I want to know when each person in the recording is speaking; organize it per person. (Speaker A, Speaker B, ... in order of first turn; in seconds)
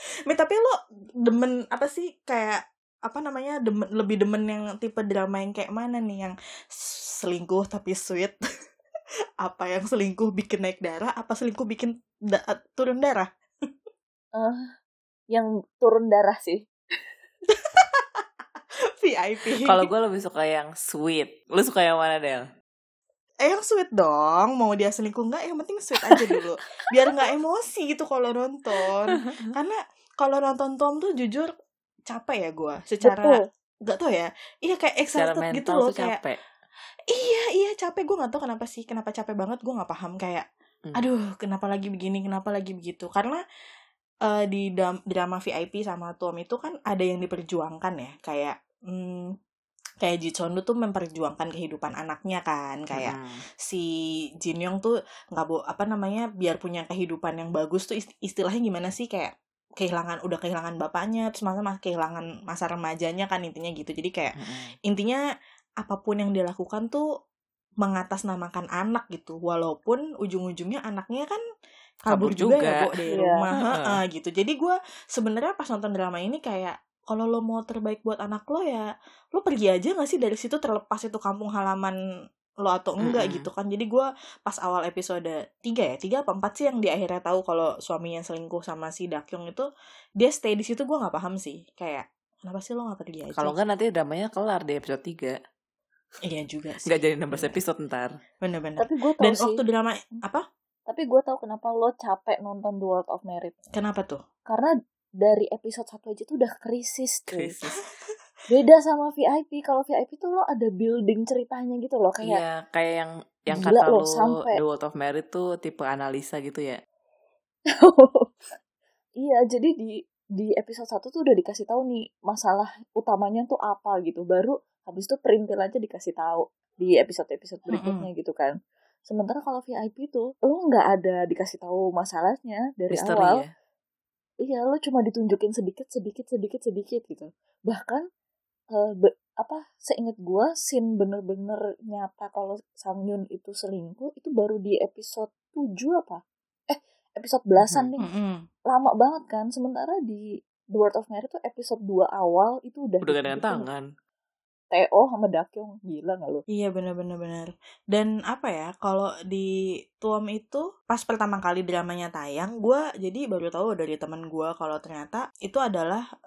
Speaker A: 0.3-8.4, 9.4-13.3, 17.5-18.2, 19.0-19.9, 23.4-31.5, 32.1-36.2, 37.1-40.4, 41.0-43.4, 44.2-49.3, 50.0-53.9, 54.4-65.2, 65.8-67.0, 67.8-71.4, 72.0-81.9, 82.6-89.7, 90.2-93.5, 96.2-97.6, 98.4-100.4, 103.7-104.2, 127.7-128.1, 148.0-148.4, 156.5-166.0
Speaker B: 14.4-14.6, 15.3-16.7, 33.0-33.4, 73.1-73.4, 98.8-99.6, 100.9-103.5, 104.5-107.5, 108.5-112.4, 113.5-114.6, 117.7-118.5, 119.2-128.5, 129.1-133.4, 134.4-138.0, 138.7-148.1, 148.7-153.7, 154.7-156.4
Speaker C: 19.6-22.4, 29.1-29.4, 35.1-36.4, 52.9-53.4, 64.4-64.7, 72.1-72.8, 73.6-74.0, 83.0-83.5, 93.4-95.4, 96.8-98.1, 107.3-107.8, 112.2-116.8, 132.9-133.5, 147.6-147.9, 153.0-153.8